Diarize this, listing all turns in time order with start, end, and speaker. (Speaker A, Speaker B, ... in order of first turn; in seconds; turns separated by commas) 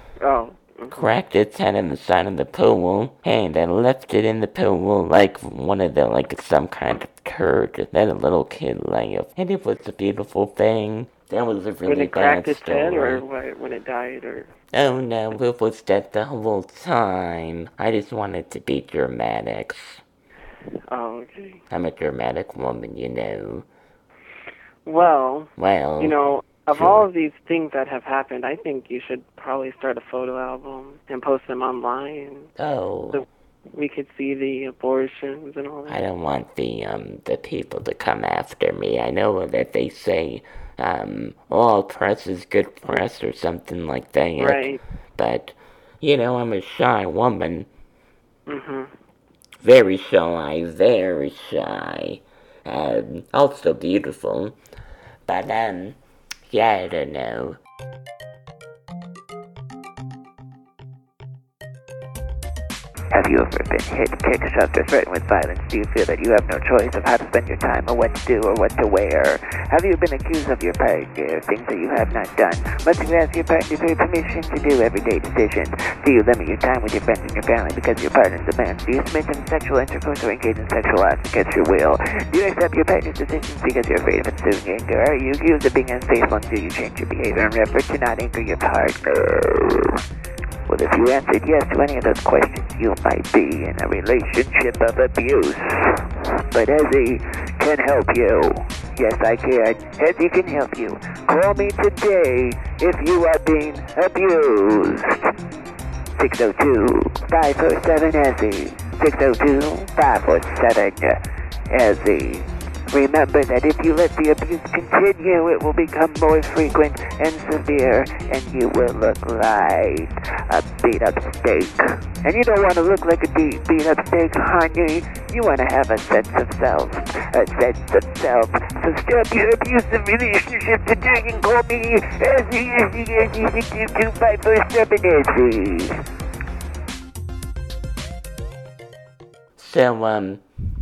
Speaker A: 0.2-1.1, Speaker B: 0.9-13.2, Speaker A: 11.9-14.5, Speaker B: 14.7-20.0, Speaker A: 20.9-21.6, Speaker B: 21.7-23.7, Speaker A: 24.9-32.5, Speaker B: 25.6-26.1, Speaker B: 26.7-27.1, Speaker B: 32.6-33.2, Speaker A: 33.1-36.0, Speaker B: 35.9-47.7, Speaker A: 44.4-44.8, Speaker A: 48.5-48.9, Speaker B: 49.6-54.6, Speaker B: 55.3-57.6, Speaker C: 63.1-90.0, Speaker C: 90.7-105.2, Speaker C: 106.2-111.2, Speaker C: 111.7-136.0, Speaker B: 139.6-140.4